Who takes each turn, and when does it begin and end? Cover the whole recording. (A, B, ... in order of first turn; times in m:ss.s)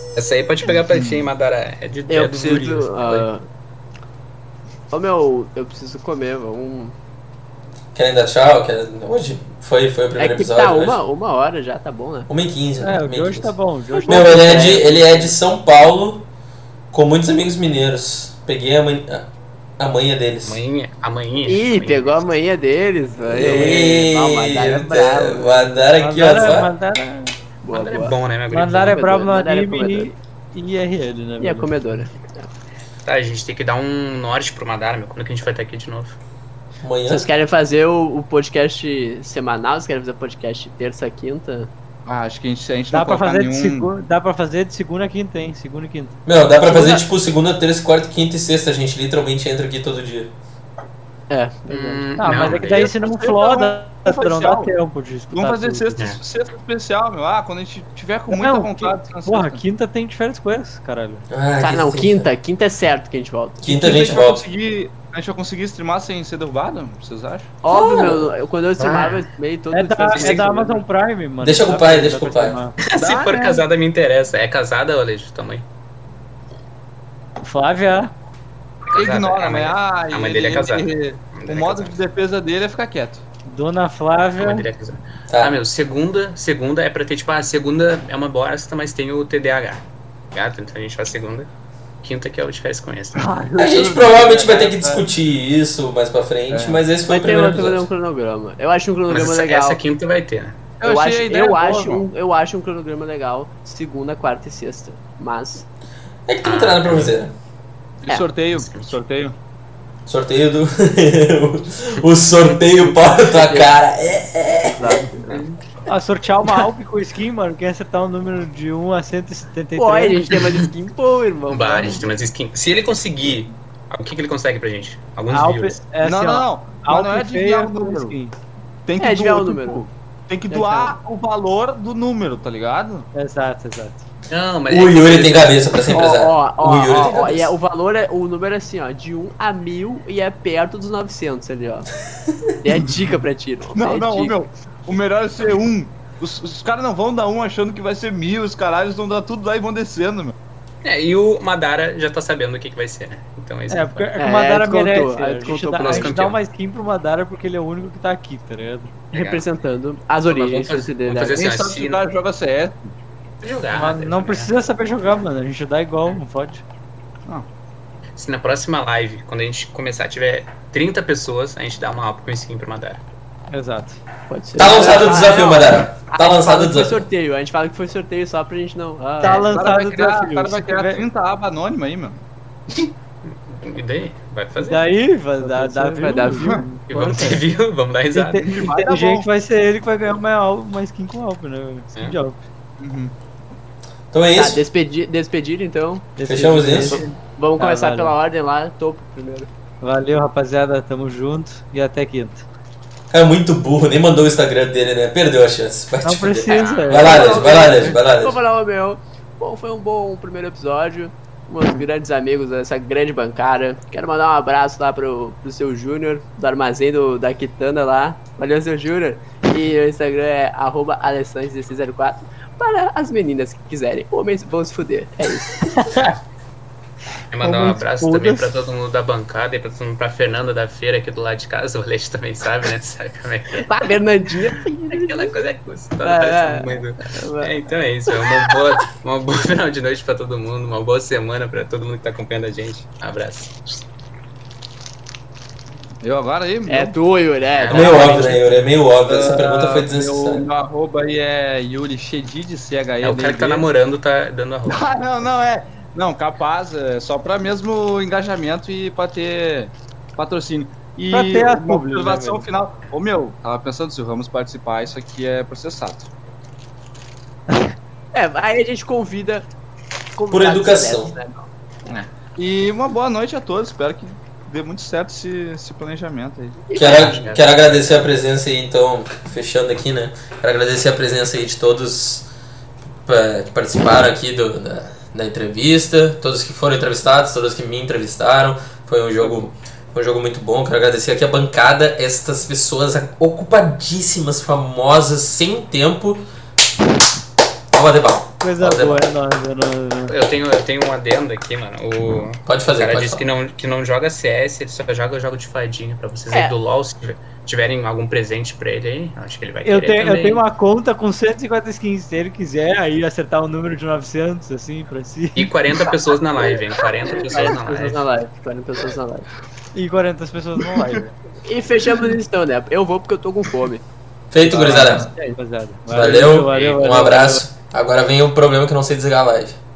0:00.1-0:03.3 A
0:00.9-0:01.2 B
0:02.1-0:03.4 C
0:04.9-0:06.9 C
0:07.9-0:11.0 D
0:10.2-0:12.3 C
0:12.3-0:13.5 D
0:12.8-0:14.9 E
0:13.9-0:15.3 C
0:14.0-0:16.2 D
0:16.9-0:19.3 D
0:19.8-0:20.6 D
0:20.4-0:22.3 A
0:21.5-0:25.8 C
0:23.2-0:26.7 D
0:26.0-0:27.4 E
0:27.6-0:28.2 C
0:27.7-0:29.0 A
0:28.5-0:32.0 E
0:28.7-0:30.1 C
0:31.4-0:32.5 C
0:33.0-0:36.2 A
0:36.8-0:37.2 D
0:37.0-0:41.7 C
0:42.0-0:43.9 B
0:42.9-0:47.0 E
0:46.2-0:50.3 D
0:51.3-0:52.5 C
0:51.7-0:52.9 A
0:52.2-0:56.1 E
0:52.5-0:54.7 B
0:55.3-0:59.6 B
0:58.3-1:01.2 E
1:01.3-1:02.3 D
1:01.6-1:04.0 C
1:03.6-1:04.4 D
1:03.7-1:07.5 B
1:07.6-1:10.8 C
1:07.7-1:08.1 A
1:08.8-1:09.2 A
1:09.7-1:12.8 E
1:10.1-1:10.4 A
1:11.4-1:12.6 D
1:12.8-1:15.6 A
1:12.9-1:13.6 B
1:17.4-1:18.1 E
1:18.8-1:22.0 A
1:18.9-1:23.2 B
1:23.5-1:24.6 E
1:24.4-1:31.5 A
1:25.3-1:25.6 D
1:32.0-1:33.3 A
1:33.2-1:35.0 B
1:33.6-1:37.9 D
1:36.5-1:36.8 B
1:37.1-1:39.8 C
1:39.1-1:40.6 A
1:40.8-1:42.0 B
1:40.8-1:45.6 C
1:46.3-1:47.3 D
1:46.4-1:47.1 A
1:48.0-1:49.4 B
1:48.5-1:49.0 A
1:50.0-1:55.1 D
1:53.2-1:53.7 C
1:54.7-1:55.4 C
1:55.3-1:55.8 A
1:55.8-2:00.4 E
1:59.8-2:02.0 C
2:01.5-2:05.8 A
2:05.3-2:08.3 E
2:06.0-2:08.2 B
2:08.9-2:13.1 B
2:09.0-2:09.9 C
2:10.5-2:11.0 C
2:13.1-2:14.0 E
2:14.3-2:15.7 A
2:14.7-2:17.5 D
2:15.9-2:21.9 C
2:22.6-2:24.4 C
2:23.7-2:30.3 B
2:30.8-2:34.1 A
2:33.7-2:38.9 E
2:34.2-2:36.2 C
2:35.8-2:36.4 A
2:39.1-2:41.4 C
2:39.1-2:39.5 A
2:40.2-2:42.0 A
2:41.3-2:42.9 B
2:43.4-2:44.5 A
2:43.7-2:46.6 E
2:48.2-2:53.0 A
2:53.5-2:54.0 E
2:54.3-2:59.5 C
2:54.6-2:57.0 D
2:59.2-3:01.0 E
2:59.3-3:02.2 B
3:02.8-3:04.9 A
3:04.6-3:07.4 E
3:05.3-3:06.7 C
3:06.9-3:08.4 A
3:08.1-3:12.4 E
3:08.4-3:09.3 B
3:12.8-3:13.1 B
3:14.1-3:14.6 D
3:14.3-3:16.1 C
3:16.2-3:18.1 E
3:16.3-3:17.0 D
3:17.4-3:19.5 C
3:19.8-3:22.4 E
3:23.1-3:28.4 D
3:26.0-3:27.9 E
3:26.5-3:27.4 A
3:26.9-3:45.6 C
3:27.2-3:27.6 B
3:45.5-3:46.2 E
3:47.3-3:53.9 A
3:47.4-3:48.5 E
3:53.6-3:55.4 C
3:54.7-4:03.8 A
3:56.0-3:57.5 C
3:58.2-3:58.5 C
4:06.0-4:06.9 B
4:06.7-4:08.4 C
4:07.5-4:08.3 A
4:07.7-4:10.4 D
4:09.1-4:13.6 B
4:13.0-4:14.9 A
4:14.7-4:26.1 B
4:21.1-4:22.5 E
4:28.1-4:29.5 C
4:30.1-4:31.5 C
4:30.3-4:31.1 D
4:31.9-4:36.6 B
4:36.7-4:37.2 C
4:36.8-4:42.3 D
4:36.8-4:38.2 A
4:43.0-4:56.2 D
4:57.7-4:59.1 D
4:58.4-5:00.1 E
5:00.1-5:10.4 A
5:02.4-5:03.2 D
5:09.6-5:15.5 E
5:15.4-5:18.1 A
5:17.1-5:19.3 C
5:19.7-5:21.1 E
5:20.6-5:21.0 B
5:21.4-5:23.8 C
5:24.3-5:25.1 D
5:24.5-5:25.4 C
5:24.6-5:27.4 E
5:24.6-5:25.1 B
5:25.9-5:29.6 D
5:26.0-5:26.8 A